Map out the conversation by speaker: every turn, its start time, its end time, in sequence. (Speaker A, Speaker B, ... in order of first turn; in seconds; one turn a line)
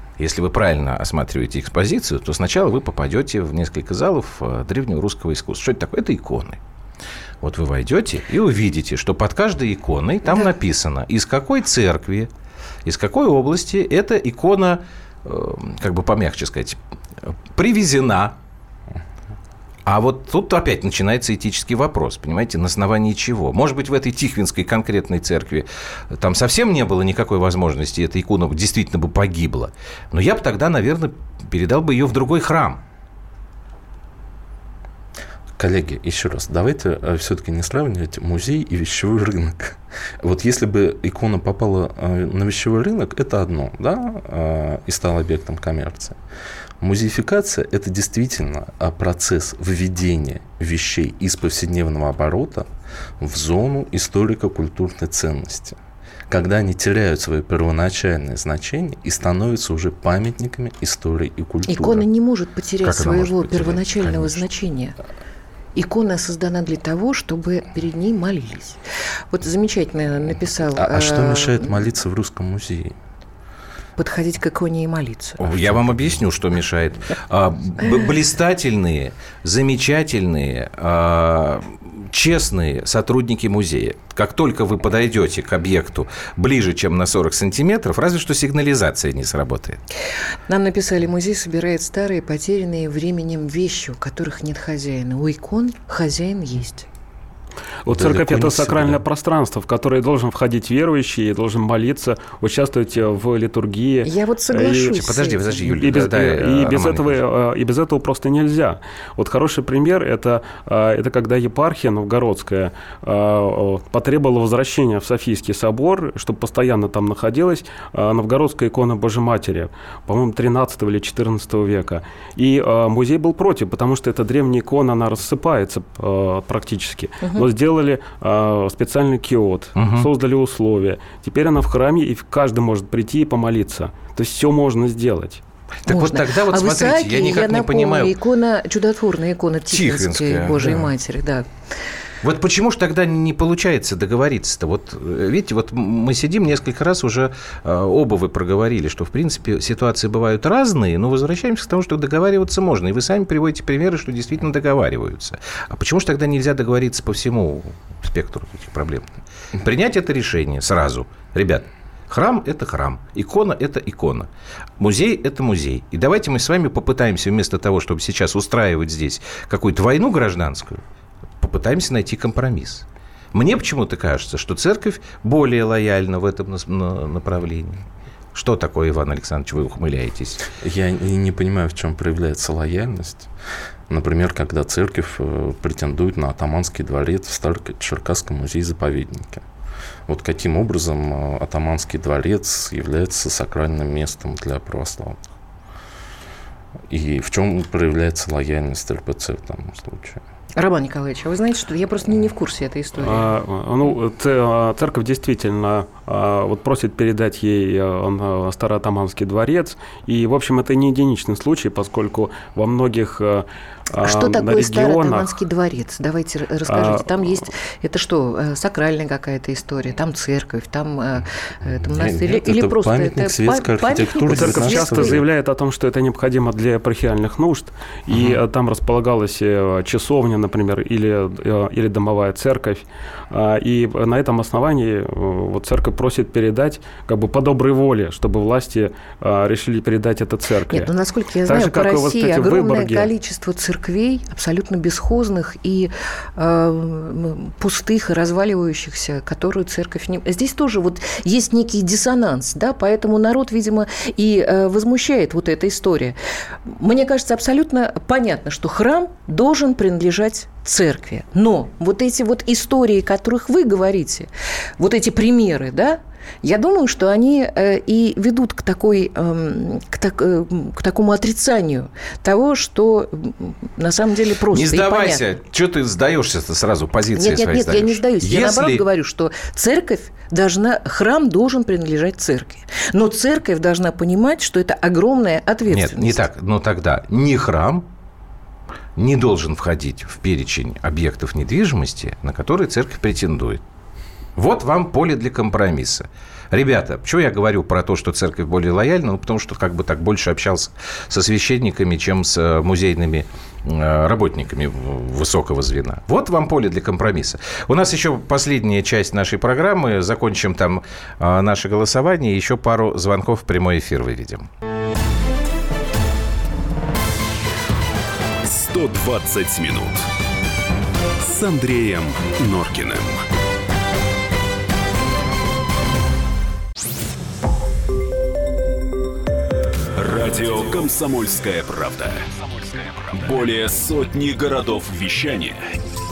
Speaker A: 0.2-6.6
Speaker A: 7.4-12.3
Speaker A: 12.8-18.4
Speaker A: 19.9-32.8
Speaker B: 35.6-46.2
Speaker B: 46.8-55.8
Speaker B: 56.3-62.0
Speaker C: 61.7-65.0
Speaker A: 62.8-64.4
Speaker C: 65.7-68.8
Speaker C: 69.3-71.8
Speaker B: 70.7-73.0
Speaker C: 74.0-75.4
Speaker A: 75.4-89.8
Speaker C: 90.5-96.9
Speaker D: 97.8-105.0
Speaker B: 97.9-99.0
Speaker C: 104.0-105.6
Speaker A: 104.8-107.2
Speaker D: 105.6-135.4
Speaker A: 129.8-130.1
Speaker A: 135.8-138.1
Speaker C: 135.9-141.4
Speaker A: 139.7-140.9
Speaker A: 142.2-170.8
Speaker A: 171.4-177.8
Speaker A: 178.3-180.4
Speaker B: 180.6-183.3
Speaker B: 183.9-189.4
Speaker B: 190.1-195.2
Speaker B: 196.9-200.2
Speaker C: 200.6-203.3
Speaker D: 203.0-215.4
Speaker C: 214.0-225.2
Speaker D: 216.7-217.1
Speaker B: 221.7-225.2
Speaker D: 224.3-240.9
Speaker C: 240.7-275.2
Speaker D: 241.4-243.1
Speaker A: 274.5-278.8
Speaker C: 277.1-286.2
Speaker A: 285.7-287.9
Speaker A: 288.9-293.6
Speaker A: 294.4-314.5
Speaker E: 318.4-320.1
Speaker E: 321.2-323.2
Speaker E: 329.9-335.6